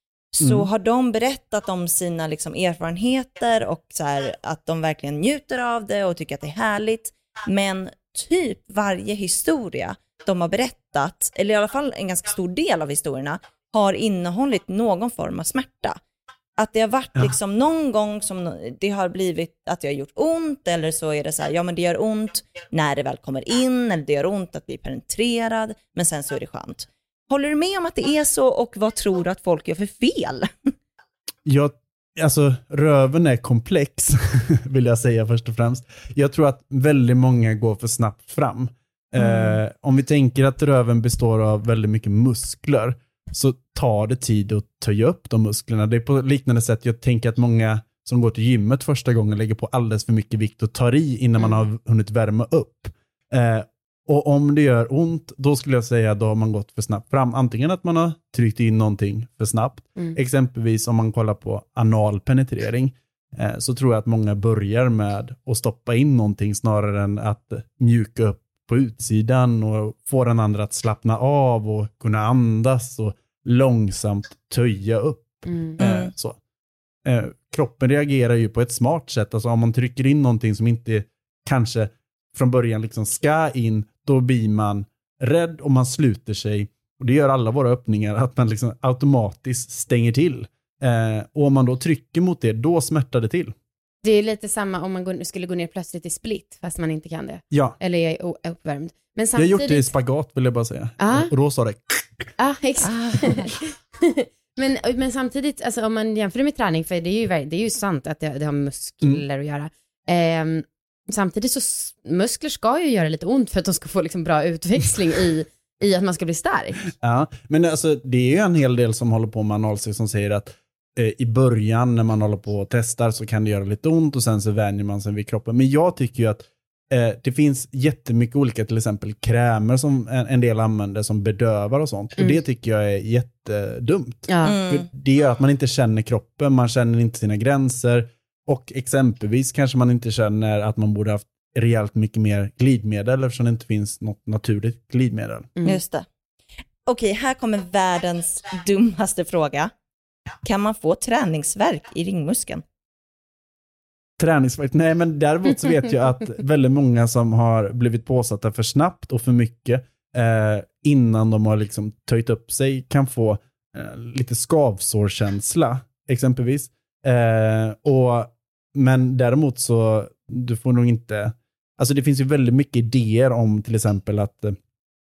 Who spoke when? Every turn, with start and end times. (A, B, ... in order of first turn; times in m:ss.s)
0:00.3-0:16.0 A
0:00.4-0:00.7 B
0:16.6-0:30.7 A
0:31.4-1:16.4 B
0:39.2-0:39.6 C
1:15.5-1:15.8 C
1:15.8-1:16.1 A
1:17.0-1:33.5 B
1:34.0-1:39.9 C
1:37.5-1:37.8 B
1:39.4-1:42.3 B
1:41.0-1:41.3 C
1:42.4-1:56.8 C
1:42.9-1:43.3 A
1:57.0-2:25.5 B
2:14.3-2:14.5 C
2:14.4-2:14.8 A
2:25.6-2:25.8 C
2:25.6-2:26.1 A
2:26.9-2:29.7 A
2:30.4-2:32.6 A
2:34.2-2:54.6 B